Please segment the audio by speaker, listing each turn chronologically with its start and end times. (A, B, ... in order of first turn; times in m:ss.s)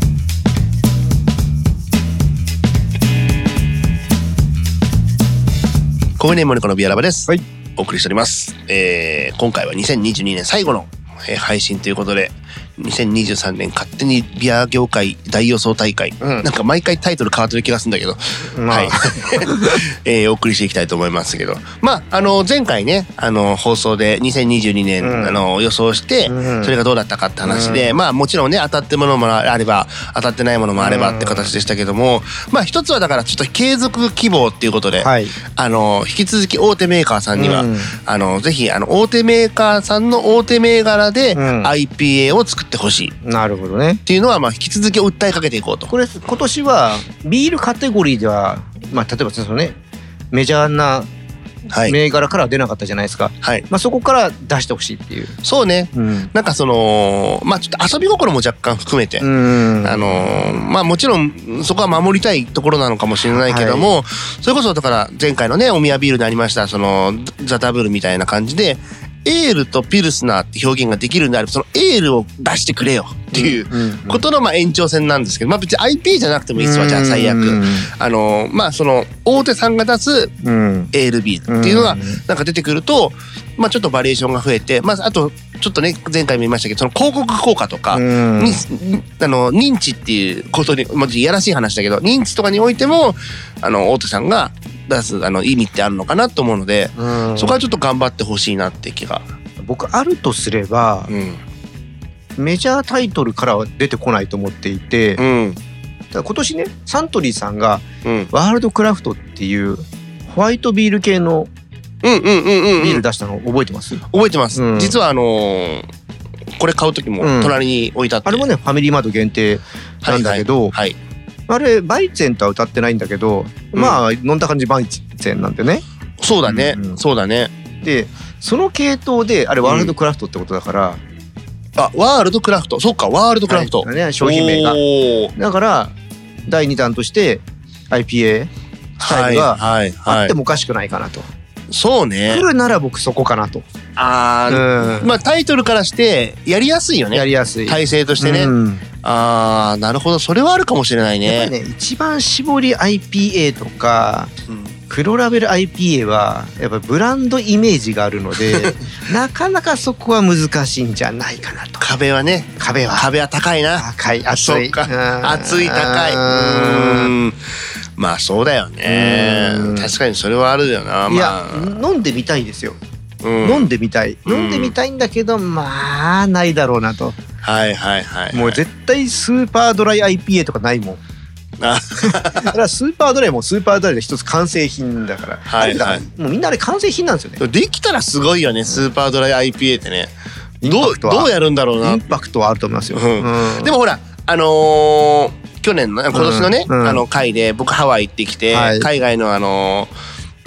0:06.2-0:43.1 A
0:16.2-0:16.5 B
0:18.5-0:19.8 B
0:25.0-0:25.4 B
0:26.3-0:26.7 B
0:27.4-0:27.9 B
0:30.8-0:31.5 B
0:35.0-0:35.4 B
0:37.3-0:38.0 B
0:41.3-0:41.7 B
0:43.2-0:44.0 B
0:44.0-0:45.9 A
0:45.9-0:49.8 B
0:50.3-0:51.1 B
0:51.7-0:52.0 A
0:51.8-0:55.4 B
0:55.4-0:59.3 A
0:55.9-0:56.3 B
0:59.2-1:00.6 B
0:59.8-1:20.3 A
1:03.3-1:03.9 B
1:13.3-1:14.2 B
1:16.6-1:17.9 B
1:20.4-1:20.9 B
1:20.9-1:39.2 A
1:21.5-1:22.2 B
1:27.9-1:28.6 B
1:37.0-1:37.7 B
1:39.6-1:41.1 B
1:41.1-1:41.4 A
1:42.4-1:45.2 B
1:45.2-1:45.6 A
1:46.1-1:51.5 B
1:52.0-1:53.0 A
1:52.8-1:55.0 B
1:54.1-1:55.8 A
1:56.6-1:58.4 A
1:57.2-1:57.6 B
1:58.2-2:00.8 B
2:00.0-2:01.0 A
2:01.5-2:05.8 B
2:03.7-2:04.0 A
2:06.2-2:07.5 A
2:06.4-2:07.0 B
2:07.8-2:11.0 B
2:09.6-2:09.9 A
2:11.8-2:15.3 A
2:13.5-2:14.8 B
2:15.4-2:15.9 B
2:16.5-2:21.3 B
2:19.0-2:20.3 A
2:21.7-2:22.4 A
2:22.3-2:23.6 B
2:24.0-2:31.5 A
2:24.5-2:25.2 B
2:27.1-2:28.8 B
2:31.2-2:34.3 B
2:34.9-2:41.8 B
2:41.8-2:51.7 A
2:42.6-2:43.1 B
2:43.7-2:47.2 B
2:48.8-2:49.9 B
2:51.1-2:52.8 B
2:53.2-2:53.7 A
2:53.4-2:57.2 B
2:54.2-2:54.7 A
2:57.4-2:58.6 A
2:58.3-3:01.0 B
3:01.6-3:02.5 A
3:02.0-3:07.4 B
3:05.5-3:06.0 A
3:07.4-3:10.1 A
3:10.6-3:13.8 B
3:10.6-3:12.1 A
3:12.9-3:19.9 A
3:16.1-3:17.0 B
3:18.5-3:18.9 B